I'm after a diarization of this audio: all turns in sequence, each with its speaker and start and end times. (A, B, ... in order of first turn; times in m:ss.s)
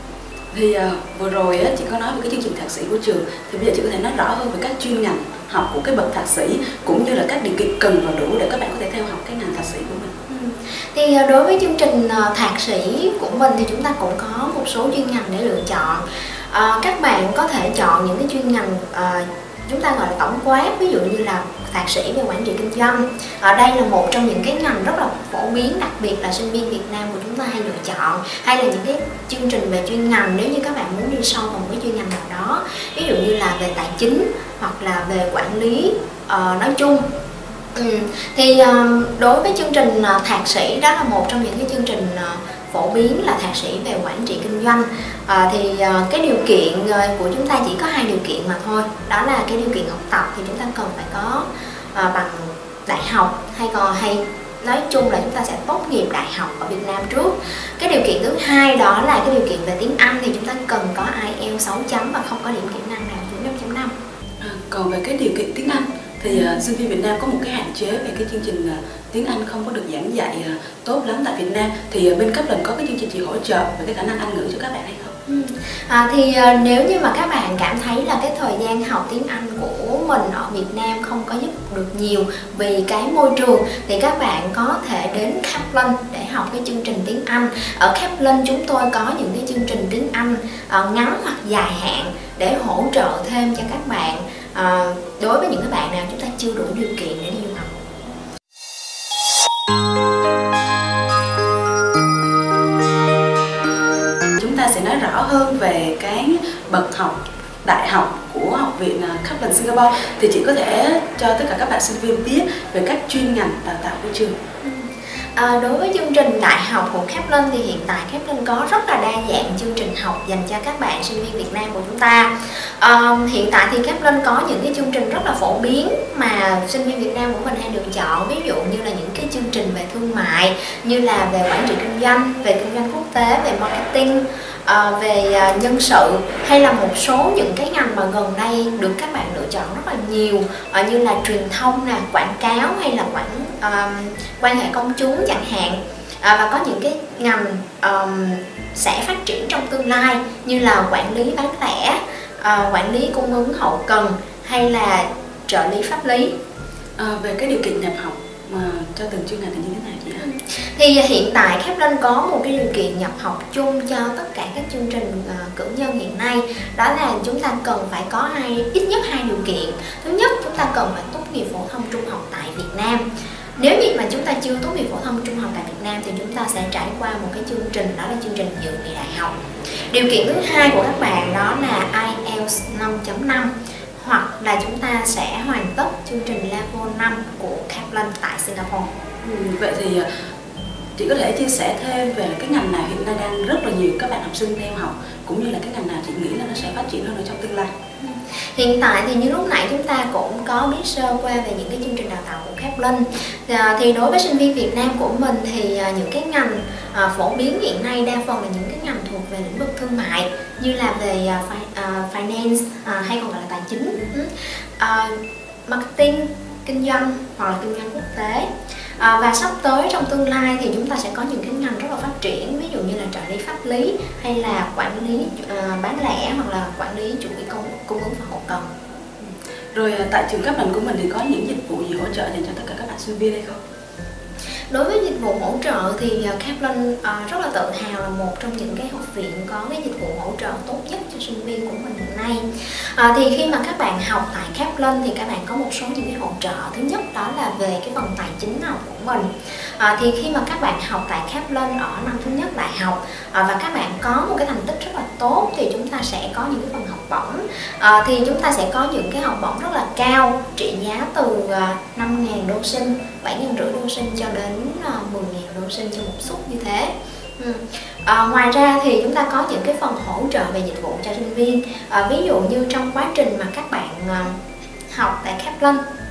0:00.5-0:10.2 A
0:10.3-0:37.1 B
0:37.8-1:04.0 B
1:04.4-1:15.2 A
1:15.3-1:37.8 B
1:44.4-1:54.4 A
1:54.6-2:36.4 B
2:37.0-2:40.2 A
2:40.2-3:08.9 B
3:09.2-3:10.1 A
3:11.0-3:17.7 A
3:18.0-3:48.7 B
3:49.2-3:53.6 A
3:54.7-4:34.4 B
4:34.9-4:35.8 B